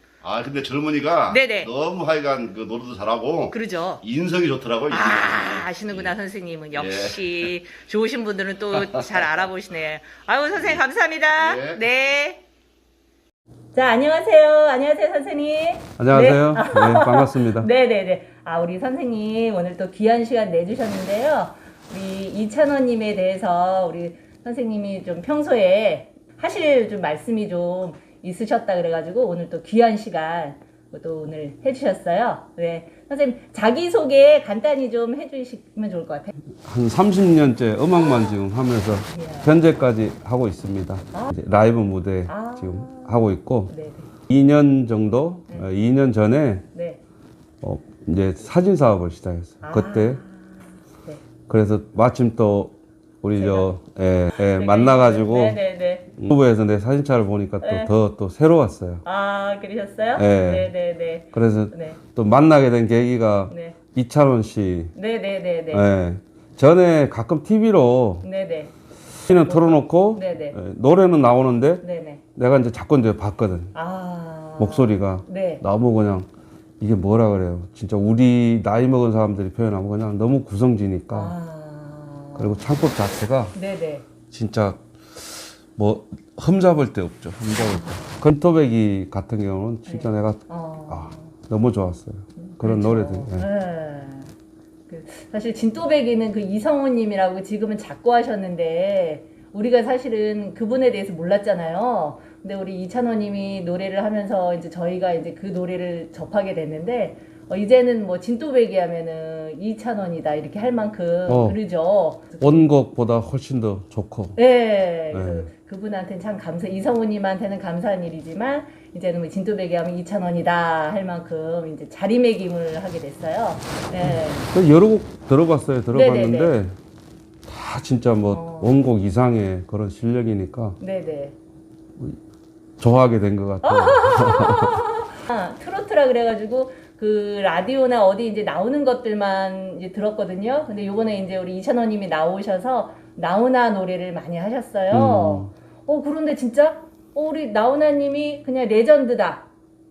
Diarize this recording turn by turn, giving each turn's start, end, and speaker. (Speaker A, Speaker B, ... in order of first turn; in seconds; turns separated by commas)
Speaker A: 0.2-6.1, Speaker B: 1.3-1.7, Speaker B: 3.5-4.0, Speaker B: 4.9-12.4, Speaker A: 6.7-7.5, Speaker A: 8.8-9.3, Speaker A: 11.3-11.8, Speaker B: 13.7-36.3, Speaker C: 16.0-17.7, Speaker C: 36.6-43.7, Speaker B: 39.1-39.5, Speaker B: 42.3-44.1, Speaker C: 44.3-46.6, Speaker B: 46.7-47.0, Speaker C: 47.6-50.2, Speaker B: 49.6-51.2, Speaker C: 51.5-55.6, Speaker B: 53.3-53.7, Speaker B: 54.4-56.1, Speaker C: 56.1-59.0, Speaker B: 57.6-57.9, Speaker B: 59.0-62.0, Speaker C: 60.1-60.7, Speaker C: 61.3-64.9, Speaker B: 63.5-63.8, Speaker B: 64.9-65.9, Speaker C: 65.7-68.3, Speaker B: 68.2-68.7, Speaker C: 69.3-71.8, Speaker B: 69.3-70.5, Speaker B: 71.8-72.2, Speaker C: 72.3-73.7, Speaker B: 73.7-75.6, Speaker C: 74.6-76.3, Speaker C: 76.8-81.3, Speaker B: 81.1-82.5, Speaker C: 82.4-83.5, Speaker B: 83.5-84.1, Speaker C: 84.3-93.5, Speaker B: 89.9-91.3, Speaker B: 92.4-94.3, Speaker B: 94.9-112.7, Speaker C: 111.3-111.6, Speaker C: 112.4-114.4, Speaker B: 114.3-124.5, Speaker C: 115.1-115.5, Speaker C: 124.0-126.8, Speaker B: 125.9-126.5, Speaker C: 127.5-130.8, Speaker B: 128.3-128.8, Speaker B: 130.8-131.3, Speaker C: 132.8-134.8, Speaker B: 133.6-149.5, Speaker C: 144.9-145.5